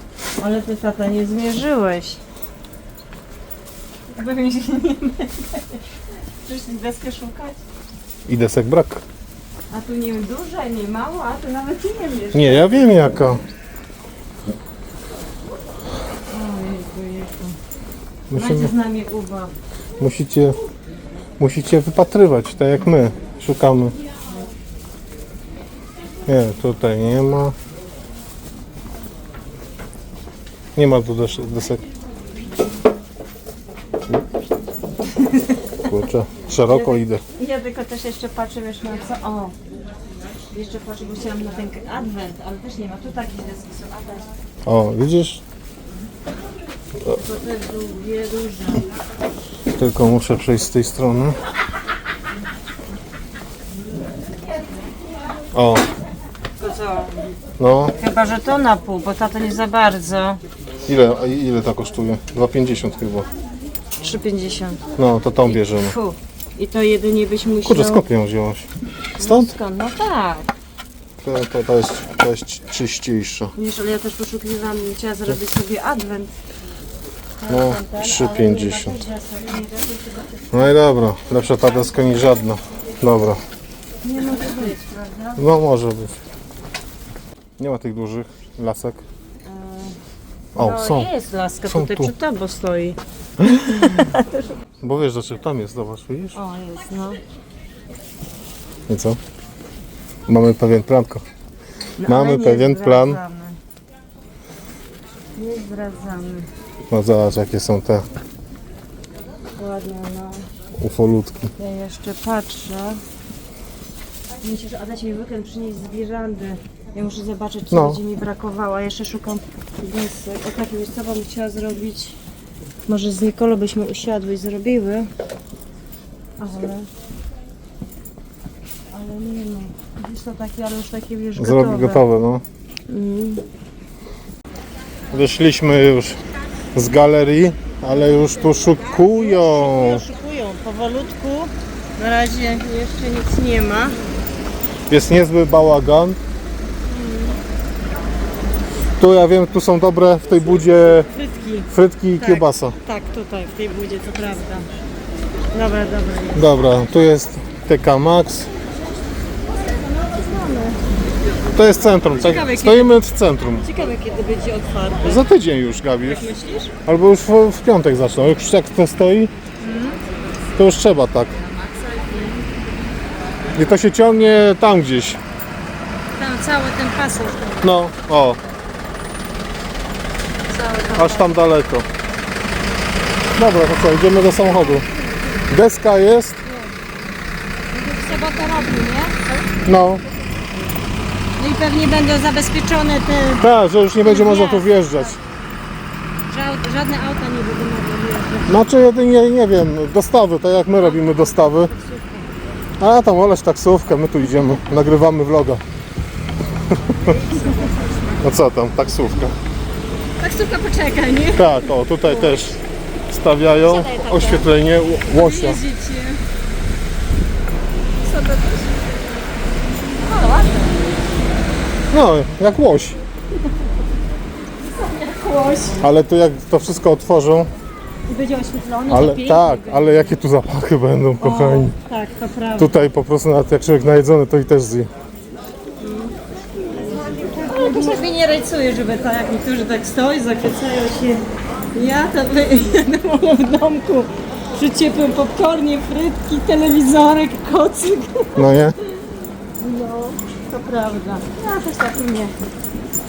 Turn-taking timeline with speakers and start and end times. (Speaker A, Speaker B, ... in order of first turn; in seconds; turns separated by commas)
Speaker A: 0.4-2.2, Speaker A: 4.1-5.8, Speaker A: 6.4-7.6, Speaker B: 8.2-9.0, Speaker A: 9.7-12.9, Speaker B: 12.3-13.4, Speaker A: 16.3-17.6, Speaker B: 18.3-18.7, Speaker A: 18.3-19.5, Speaker B: 20.0-20.6, Speaker B: 21.4-24.0, Speaker B: 26.2-27.5, Speaker B: 30.7-31.8, Speaker A: 35.0-35.8, Speaker B: 35.8-37.2, Speaker A: 36.6-39.5, Speaker A: 40.5-44.3, Speaker B: 44.6-45.4, Speaker A: 47.1-48.8, Speaker B: 49.7-51.4, Speaker B: 55.5-55.8, Speaker A: 56.6-57.2, Speaker B: 57.6-57.9, Speaker A: 58.0-60.4, Speaker B: 60.9-63.3, Speaker A: 64.0-64.8, Speaker B: 65.0-65.9, Speaker A: 65.4-68.0, Speaker B: 67.7-68.7, Speaker A: 69.2-70.5, Speaker B: 69.2-69.5, Speaker B: 71.2-73.5, Speaker A: 73.5-76.3, Speaker A: 77.4-80.4, Speaker B: 77.5-79.0, Speaker B: 80.5-83.4, Speaker A: 84.0-85.4, Speaker B: 85.4-86.2, Speaker B: 87.6-89.0, Speaker A: 89.4-90.0, Speaker B: 90.5-91.1, Speaker A: 90.5-93.0, Speaker B: 91.7-92.1, Speaker B: 93.4-94.0, Speaker A: 93.7-94.5, Speaker B: 94.8-96.4, Speaker A: 96.3-97.2, Speaker B: 98.9-99.2, Speaker B: 100.2-101.2, Speaker A: 102.0-103.6, Speaker B: 102.0-103.2, Speaker A: 105.3-106.5, Speaker B: 106.9-108.0, Speaker A: 109.6-110.4, Speaker B: 110.8-111.5, Speaker A: 111.6-113.0, Speaker A: 114.4-122.2, Speaker B: 117.7-118.0, Speaker A: 122.9-125.1, Speaker A: 126.4-126.9, Speaker A: 128.9-132.0, Speaker B: 131.4-132.4, Speaker A: 132.9-133.4, Speaker B: 135.1-136.2, Speaker B: 136.7-140.0, Speaker A: 137.9-144.0, Speaker B: 144.9-146.2, Speaker A: 146.9-147.4, Speaker B: 149.0-151.1, Speaker A: 151.1-154.7, Speaker B: 151.7-152.8, Speaker A: 155.5-156.6, Speaker B: 156.3-158.5, Speaker A: 159.7-160.8, Speaker B: 161.5-163.7, Speaker A: 162.2-163.0, Speaker A: 163.6-165.2, Speaker B: 165.0-166.3, Speaker A: 166.0-166.7, Speaker B: 166.8-169.3, Speaker A: 169.6-170.0, Speaker B: 170.6-171.3, Speaker A: 171.5-172.4, Speaker B: 173.5-175.2, Speaker A: 176.2-177.7, Speaker B: 177.6-178.4, Speaker A: 180.5-181.4, Speaker B: 180.9-181.8, Speaker B: 183.3-184.8, Speaker A: 184.8-185.3, Speaker B: 185.5-186.4, Speaker A: 187.7-189.4, Speaker B: 189.6-190.0, Speaker A: 191.4-193.5, Speaker B: 193.4-195.2, Speaker A: 194.0-195.2, Speaker A: 196.3-198.6, Speaker B: 198.5-201.7, Speaker A: 200.7-202.3, Speaker B: 202.8-205.6, Speaker A: 207.0-207.8, Speaker B: 208.2-209.3, Speaker A: 210.2-212.5, Speaker B: 211.3-212.6, Speaker B: 213.1-215.6, Speaker A: 213.6-214.5, Speaker A: 215.1-216.2, Speaker A: 218.0-219.0, Speaker A: 219.9-220.7, Speaker B: 221.9-223.0, Speaker A: 224.6-225.8, Speaker B: 225.8-227.5, Speaker A: 228.1-230.1, Speaker B: 228.9-231.8, Speaker A: 231.2-232.9, Speaker B: 232.6-234.9, Speaker A: 235.8-248.5, Speaker B: 248.3-248.8, Speaker A: 249.6-252.3